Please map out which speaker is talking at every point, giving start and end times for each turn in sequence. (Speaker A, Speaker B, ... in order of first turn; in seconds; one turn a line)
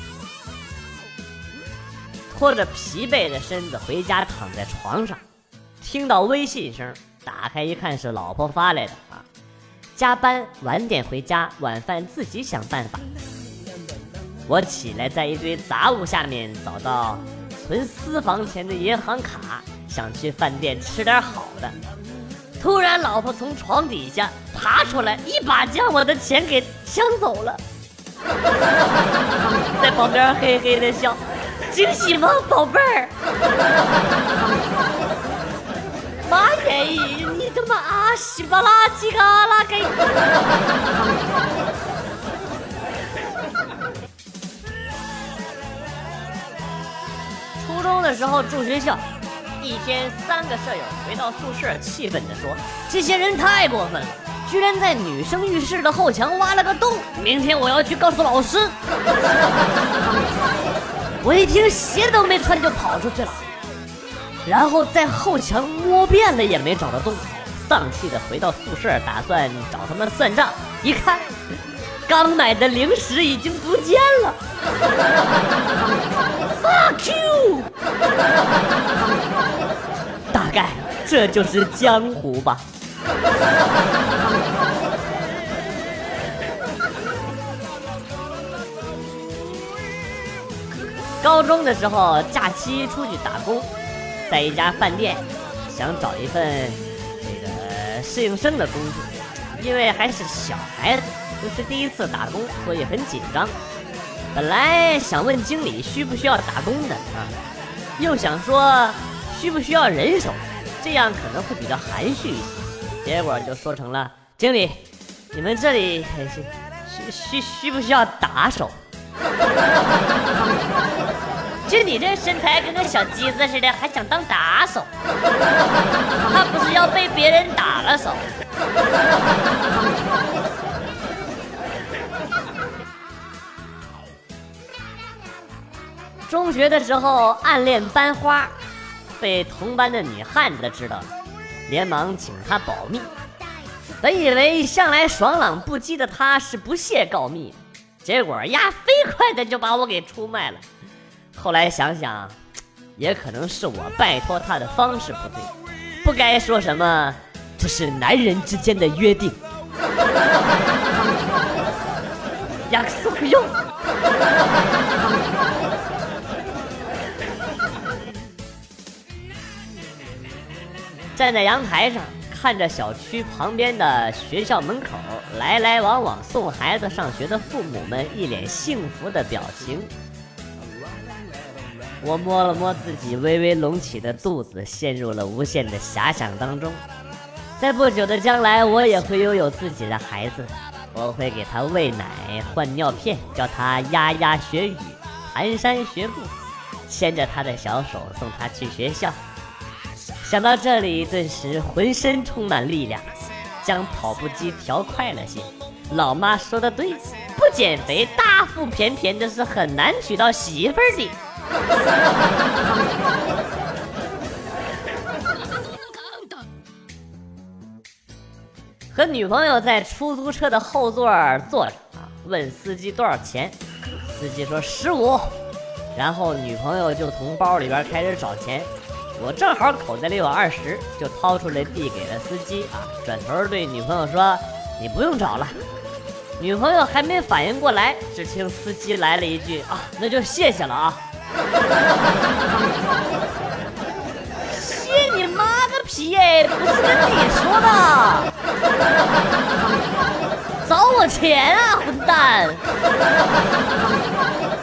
Speaker A: 2.3-5.2
Speaker A: 5.8-9.2
Speaker A: 10.0-13.2
Speaker A: 14.5-21.8
Speaker A: 22.6-27.6
Speaker A: 29.8-33.1
Speaker A: 36.2-40.0
Speaker A: 47.6-49.0
Speaker A: 49.6-58.8
Speaker A: 61.2-63.4
Speaker A: 64.5-71.3
Speaker A: 72.1-74.4
Speaker A: 76.6-77.7
Speaker A: 80.3-82.6
Speaker A: 91.2-93.7
Speaker A: 94.3-103.5
Speaker A: 104.3-107.4
Speaker A: 108.0-118.8
Speaker A: 121.7-124.9
Speaker A: 126.3-128.3
Speaker A: 136.3-138.6
Speaker A: 139.2-141.1
Speaker A: 141.7-143.2
Speaker A: 144.0-150.6
Speaker A: 151.3-152.4
Speaker A: 153.0-155.5
Speaker A: 156.0-159.4
Speaker A: 162.7-163.6
Speaker A: 171.2-179.9
Speaker A: 182.0-186.8
Speaker A: 187.6-196.3
Speaker A: 196.9-199.2
Speaker A: 200.2-203.1
Speaker A: 203.6-211.2
Speaker A: 218.9-225.4
Speaker A: 225.9-235.6
Speaker A: 236.4-241.0
Speaker A: 244.4-248.3
Speaker A: 250.6-252.6